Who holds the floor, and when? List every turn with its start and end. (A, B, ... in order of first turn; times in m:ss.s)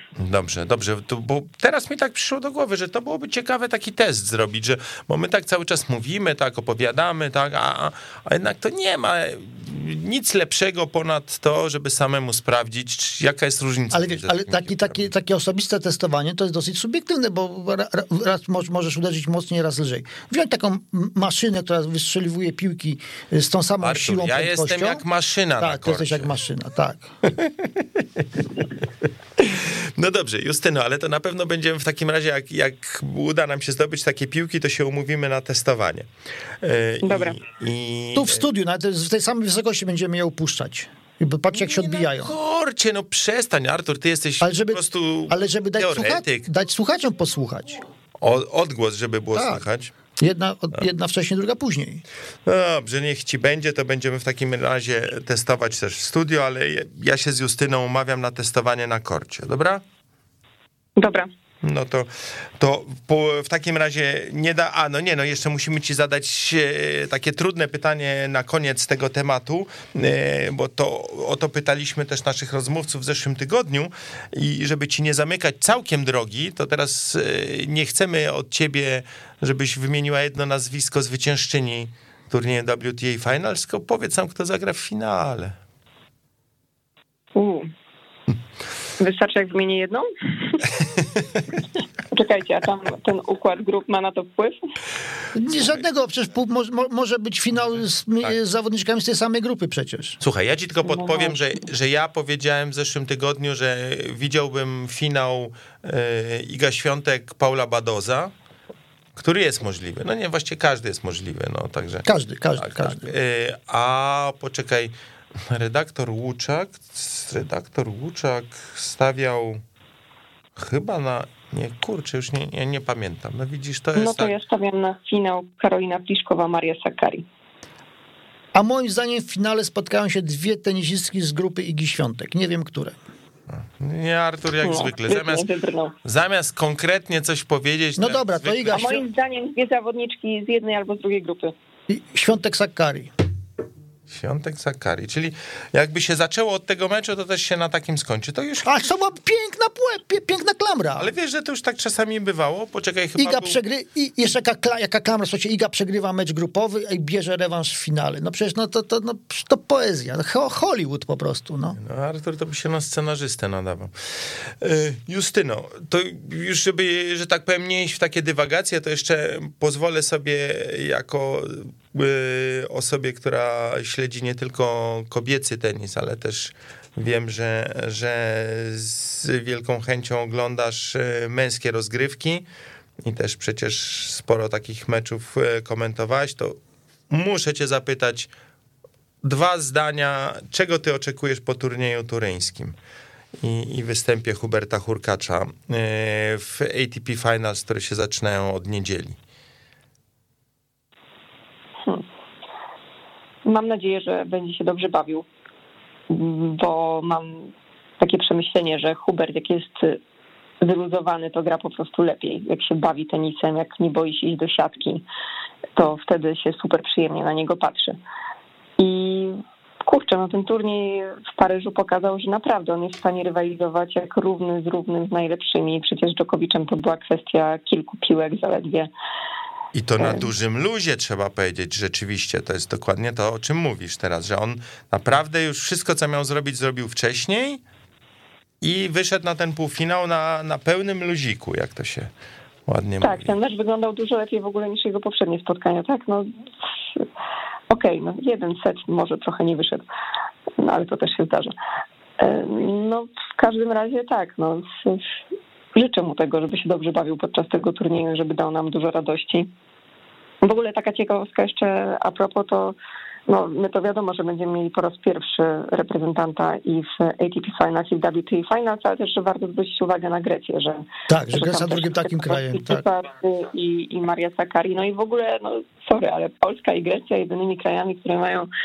0:00.2-0:15.0 A
0:13.9-0:25.0 B
0:23.8-0:26.3 A
0:25.6-0:27.1 B
0:27.3-0:28.4 A
0:29.4-0:36.1 A
0:36.6-0:38.4 A
0:37.0-0:37.4 C
0:38.1-0:42.3 B
0:41.5-0:46.5 A
0:44.4-0:47.8 B
0:48.2-0:49.9 A
0:49.3-0:49.6 B
0:50.2-0:52.0 B
0:52.4-0:59.8 A
1:01.0-1:01.3 C
1:01.6-1:25.6 A
1:27.3-1:27.7 C
1:29.0-1:30.6 C
1:32.1-1:34.6 C
1:35.3-1:40.2 B
1:40.2-1:48.3 A
1:40.8-1:41.4 C
1:49.2-1:52.1 A
1:52.0-1:53.1 B
1:52.6-1:59.6 A
2:00.6-2:04.3 A
2:03.9-2:07.2 C
2:08.5-2:13.0 B
2:13.5-2:15.5 A
2:14.6-2:16.0 C
2:16.0-2:18.9 A
2:18.0-2:19.0 B
2:18.7-2:21.5 C
2:21.9-2:23.1 B
2:24.1-2:28.7 A
2:28.6-2:31.1 B
2:31.0-2:33.6 A
2:33.2-2:41.8 B
2:41.8-2:43.9 A
2:44.5-3:02.4 A
3:03.0-3:06.6 A
3:07.1-3:08.3 A
3:09.2-3:12.8 A
3:13.4-3:19.2 A
3:23.4-3:25.2 C
3:26.1-3:30.0 C
3:30.6-3:35.0 C
3:35.8-3:38.0 C
3:38.8-3:48.9 C
3:49.7-3:57.6 A
3:50.0-3:50.2 C
3:58.6-4:02.1 A
4:02.7-4:03.3 A
4:03.0-4:06.3 C
4:07.7-4:09.8 C
4:10.6-4:11.5 C
4:12.2-4:15.0 C
4:15.7-4:19.5 C
4:20.4-4:22.8 C
4:23.3-4:38.5 C
4:31.1-4:32.8 B